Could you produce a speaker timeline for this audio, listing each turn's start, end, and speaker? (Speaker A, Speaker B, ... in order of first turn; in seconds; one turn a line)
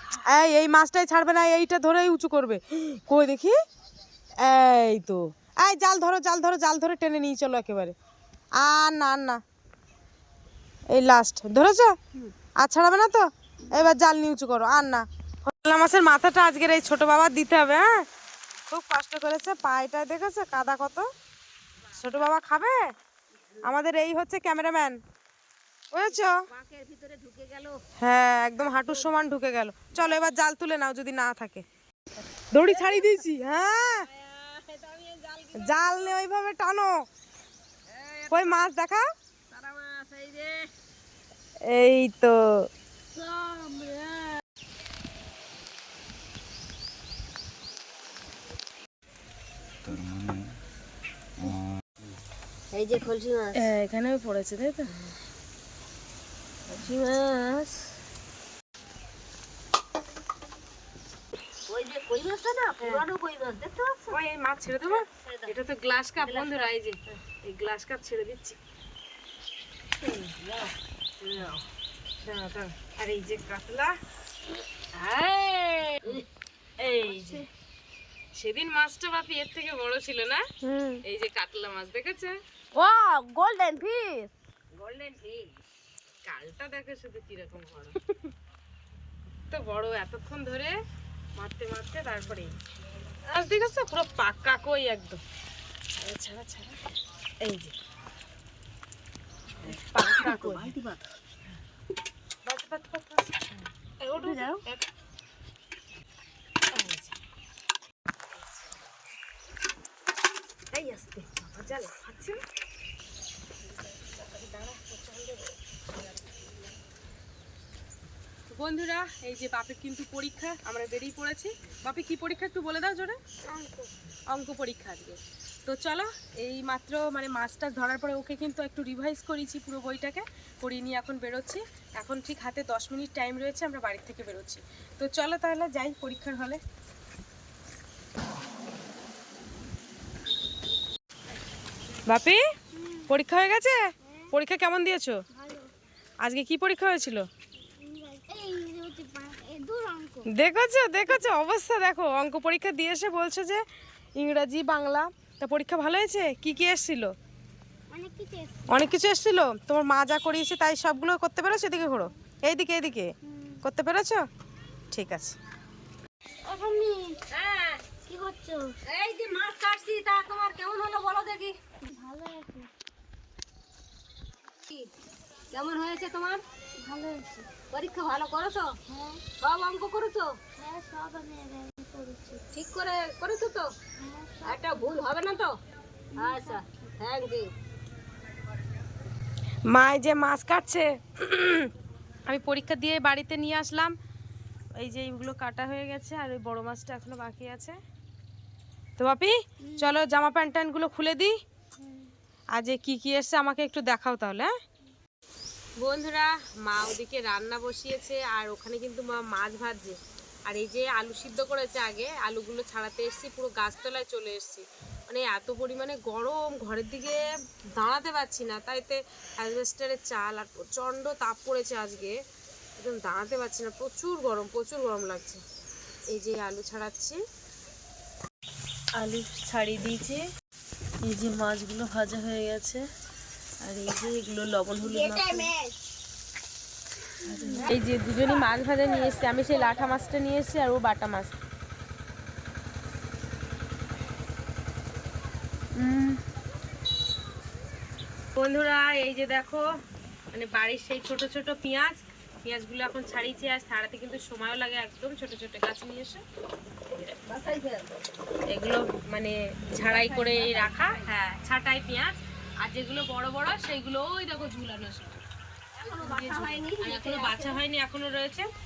Speaker A: 0.3-3.5
Speaker A: 4.4-7.9
Speaker A: 8.6-9.4
Speaker A: 10.9-11.9
Speaker A: 12.6-17.9
Speaker A: 18.7-21.1
Speaker A: 21.9-22.8
Speaker A: 23.6-25.0
Speaker A: 25.9-26.3
Speaker B: 26.5-27.8
Speaker A: 28.0-31.6
Speaker A: 32.5-34.0
Speaker B: 32.6-33.2
Speaker B: 34.0-36.1
Speaker A: 35.6-37.0
Speaker B: 37.9-38.7
Speaker A: 38.3-39.0
Speaker B: 39.5-40.7
Speaker A: 41.6-42.7
Speaker B: 43.1-44.4
Speaker B: 52.7-53.7
Speaker A: 53.5-54.9
Speaker B: 56.7-57.9
Speaker B: 61.7-64.2
Speaker A: 64.1-68.6
Speaker B: 64.8-65.5
Speaker B: 66.2-66.7
Speaker A: 70.0-70.3
Speaker B: 70.4-71.6
Speaker A: 72.2-73.9
Speaker B: 74.9-76.2
Speaker A: 76.8-77.5
Speaker A: 78.3-84.3
Speaker B: 84.7-85.5
Speaker A: 86.3-87.9
Speaker A: 89.5-90.7
Speaker A: 91.4-92.5
Speaker A: 93.3-95.2
Speaker A: 96.0-96.8
Speaker A: 97.4-97.7
Speaker A: 99.6-100.7
Speaker B: 99.6-101.0
Speaker A: 102.5-104.8
Speaker B: 104.0-104.6
Speaker A: 106.7-107.1
Speaker A: 110.7-112.4
Speaker A: 113.7-116.4
Speaker A: 118.5-123.2
Speaker C: 123.5-123.9
Speaker A: 124.3-136.6
Speaker A: 142.1-142.4
Speaker C: 142.7-143.1
Speaker A: 143.1-145.2
Speaker C: 145.3-145.7
Speaker A: 146.2-147.3
Speaker C: 147.8-150.3
Speaker A: 150.3-153.6
Speaker A: 154.2-157.1
Speaker C: 157.9-158.6
Speaker A: 158.7-164.2
Speaker C: 163.3-163.6
Speaker A: 164.9-165.4
Speaker C: 166.4-167.2
Speaker B: 167.3-167.8
Speaker C: 168.1-168.7
Speaker B: 168.9-171.5
Speaker C: 171.8-172.7
Speaker B: 175.5-176.4
Speaker C: 176.8-177.5
Speaker B: 177.7-178.7
Speaker C: 178.9-179.2
Speaker B: 179.4-180.4
Speaker C: 180.6-182.4
Speaker B: 182.5-183.7
Speaker C: 184.0-184.9
Speaker B: 184.4-185.6
Speaker C: 186.1-186.9
Speaker B: 186.2-187.5
Speaker A: 189.7-191.7
Speaker A: 192.3-193.9
Speaker A: 194.8-197.8
Speaker A: 199.0-201.3
Speaker C: 199.6-199.9
Speaker C: 201.8-202.1
Speaker A: 202.5-204.5
Speaker A: 205.8-222.2
Speaker A: 222.8-225.4
Speaker A: 226.1-227.2
Speaker A: 228.9-230.2
Speaker A: 231.0-232.8
Speaker A: 233.6-235.5
Speaker C: 235.0-235.5
Speaker A: 237.3-241.3
Speaker A: 245.8-246.2
Speaker A: 248.3-249.6
Speaker A: 250.3-256.2
Speaker A: 256.9-257.2
Speaker B: 257.3-257.9
Speaker A: 258.5-265.2
Speaker B: 259.8-261.1
Speaker B: 265.8-267.6
Speaker A: 265.8-268.5